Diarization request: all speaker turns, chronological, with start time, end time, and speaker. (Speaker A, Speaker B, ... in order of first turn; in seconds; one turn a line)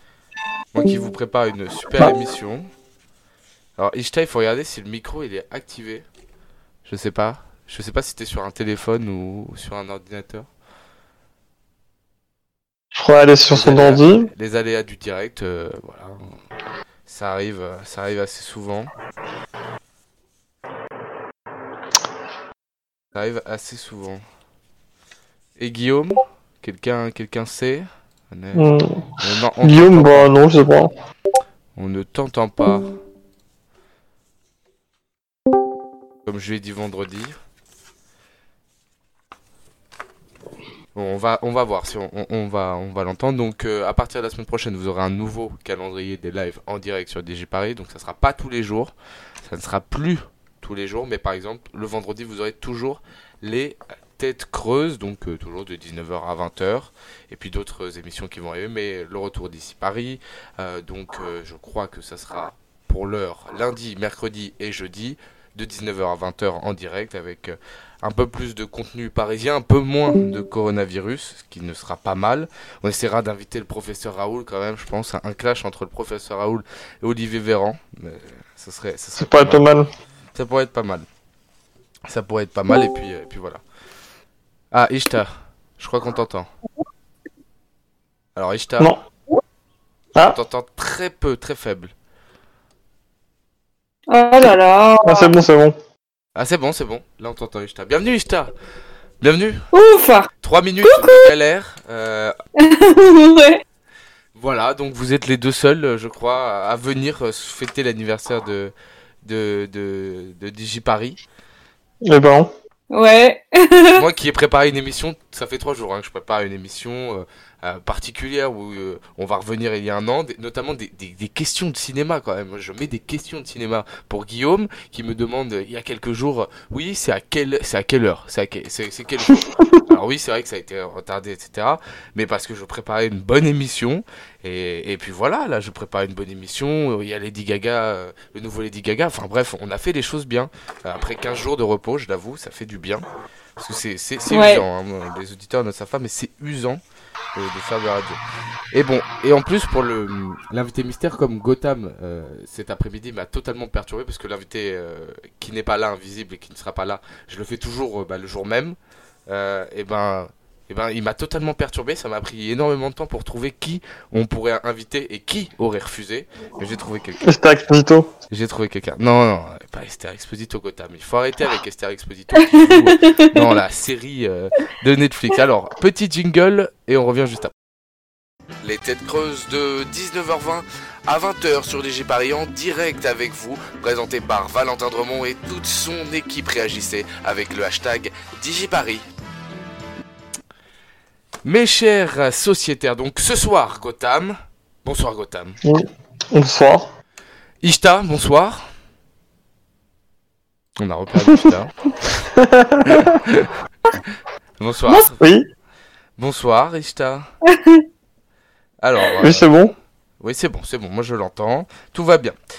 Speaker A: 0.7-2.7
Speaker A: 3.8-6.0
Speaker A: 6.8-10.5
Speaker B: 12.9-14.3
Speaker A: 13.5-16.2
Speaker A: 17.1-18.9
Speaker A: 23.1-24.2
Speaker A: 25.6-28.7
Speaker B: 28.5-30.9
Speaker A: 29.2-30.3
Speaker A: 31.8-32.9
Speaker A: 36.2-37.4
Speaker A: 40.9-79.6
Speaker B: 79.2-79.9
Speaker A: 80.3-81.1
Speaker A: 82.1-83.6
Speaker A: 84.7-86.5
Speaker A: 88.3-88.9
Speaker A: 90.2-91.9
Speaker C: 94.1-95.3
Speaker B: 95.0-95.8
Speaker A: 96.3-98.5
Speaker A: 99.2-99.6
Speaker C: 99.7-100.3
Speaker A: 100.4-102.3
Speaker C: 100.8-101.3
Speaker C: 102.6-103.6
Speaker A: 104.3-111.2
Speaker B: 112.0-112.5
Speaker C: 112.9-114.0
Speaker A: 113.9-143.0
Speaker B: 129.4-129.8
Speaker A: 143.6-146.8
Speaker C: 144.3-144.6
Speaker A: 147.3-148.2
Speaker A: 148.7-158.8
Speaker A: 159.3-167.3
Speaker B: 167.2-168.1
Speaker A: 168.3-177.5
Speaker C: 172.6-173.4
Speaker A: 178.6-189.1
Speaker A: 191.4-195.6
Speaker B: 195.6-196.9
Speaker A: 197.6-198.6
Speaker A: 200.8-201.7
Speaker B: 202.4-203.2
Speaker A: 202.8-203.5
Speaker A: 204.6-205.2
Speaker B: 205.2-205.5
Speaker A: 206.2-207.3
Speaker C: 207.5-207.8
Speaker A: 208.8-209.5
Speaker B: 209.2-209.7
Speaker A: 210.2-212.3